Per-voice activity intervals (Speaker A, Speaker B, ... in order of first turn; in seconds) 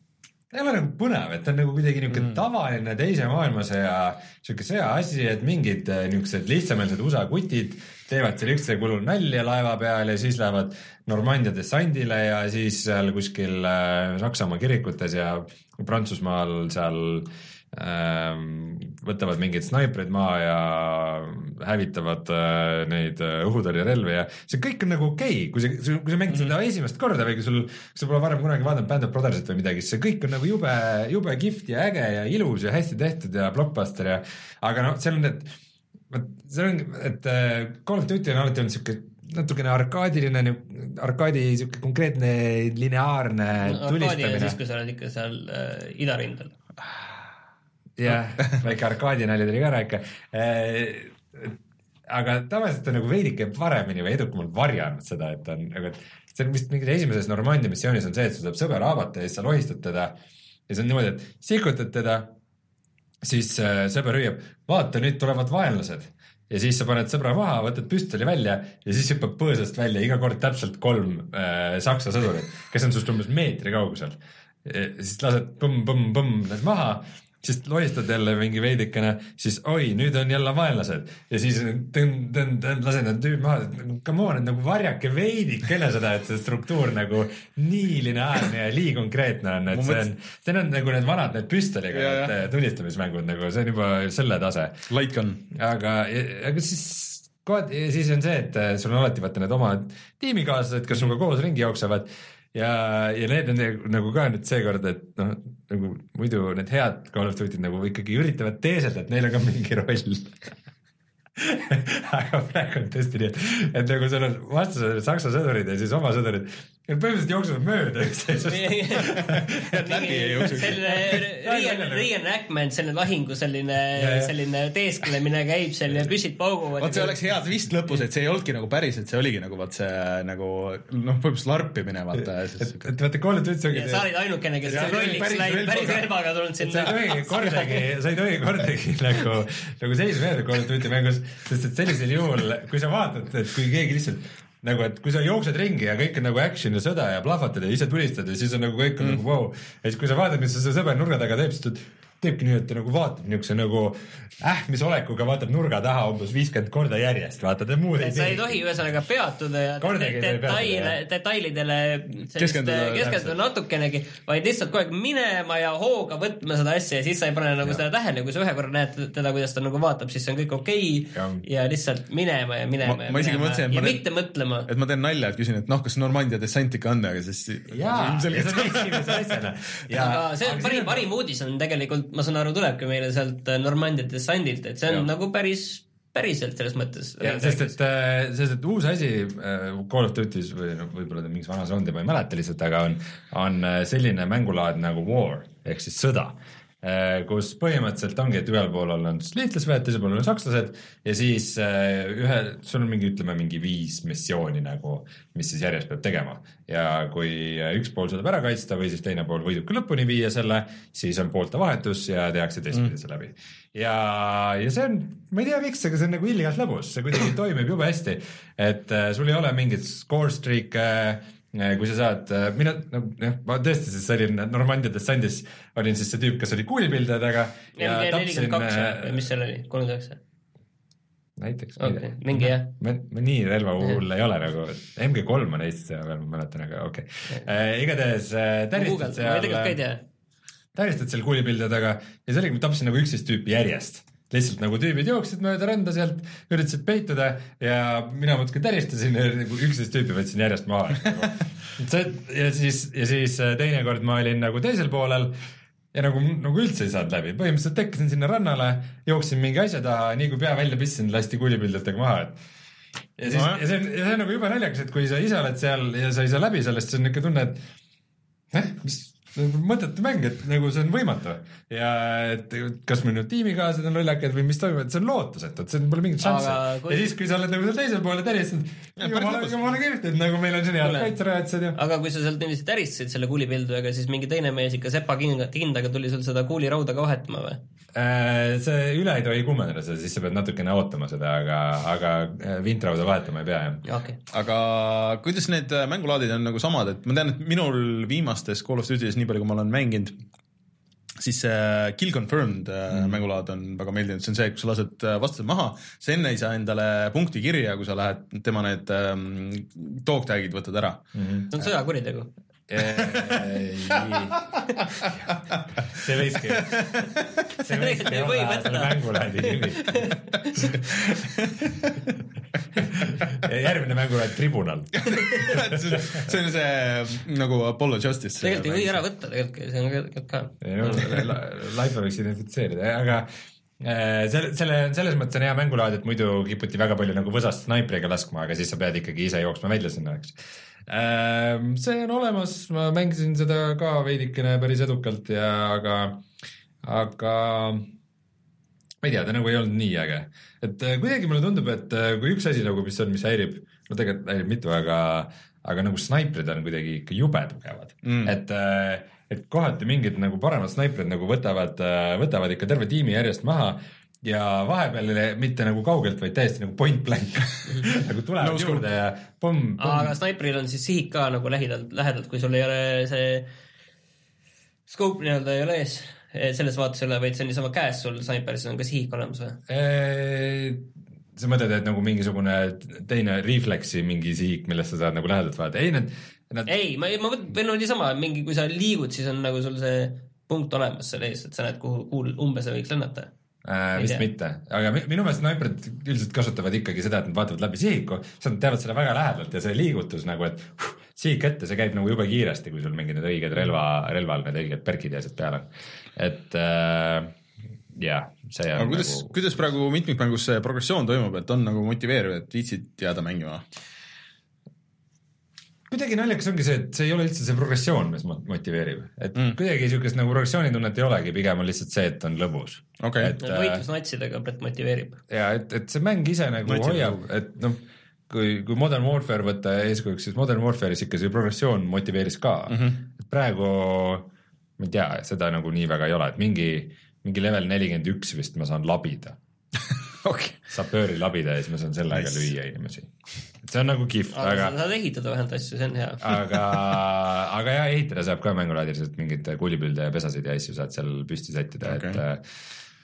Speaker A: 0.5-35.5, 36.1-44.6, 48.0-60.1, 60.7-62.3, 63.2-94.8, 95.5-110.4, 111.3-119.7, 121.3-122.1, 124.0-124.3, 132.2-134.1, 136.6-158.8, 159.8-160.9, 171.1-171.4, 177.7-181.1, 187.2-229.2, 231.4-239.8, 240.7-255.3, 255.9-262.4, 263.2-267.6, 268.5-281.8, 287.9-293.8, 302.9-303.2, 311.1-311.5, 312.7-314.4, 315.0-315.2, 315.8-317.1, 317.6-320.1, 322.8-326.3, 330.6-346.2, 346.8-347.9, 349.0-370.1, 379.7-386.7, 393.6-407.4, 407.9-409.6, 415.9-423.8, 425.3-439.4, 440.7-443.1, 443.6-444.8, 446.2-452.4
Speaker B: 2.1-2.4, 26.3-26.5, 89.7-90.0, 91.9-92.3, 94.9-95.4, 119.4-121.2, 126.8-132.9, 134.7-136.1, 162.4-163.3, 172.8-174.0, 174.7-179.3, 263.3-263.6, 279.0-279.7, 280.8-281.1, 294.3-300.2, 301.2-311.1, 313.9-314.4, 316.5-317.3, 321.4-321.9, 325.0-329.0, 331.0-331.2, 358.0-358.3, 368.4-368.8, 408.7-413.6, 423.0-423.3, 426.6-427.2, 432.7-433.0, 440.2-440.6, 442.1-442.5, 451.9-452.2
Speaker C: 43.6-46.5, 118.4-127.2, 133.7-137.9, 158.0-174.7, 179.9-187.7, 227.8-230.2, 231.8-232.7, 238.7-240.0, 276.2-277.1, 281.7-287.6, 293.8-294.2, 311.5-312.3, 317.7-320.7, 328.4-331.1, 369.8-373.5, 374.9-379.6, 386.7-393.3, 393.9-394.2, 423.4-425.2, 444.3-446.2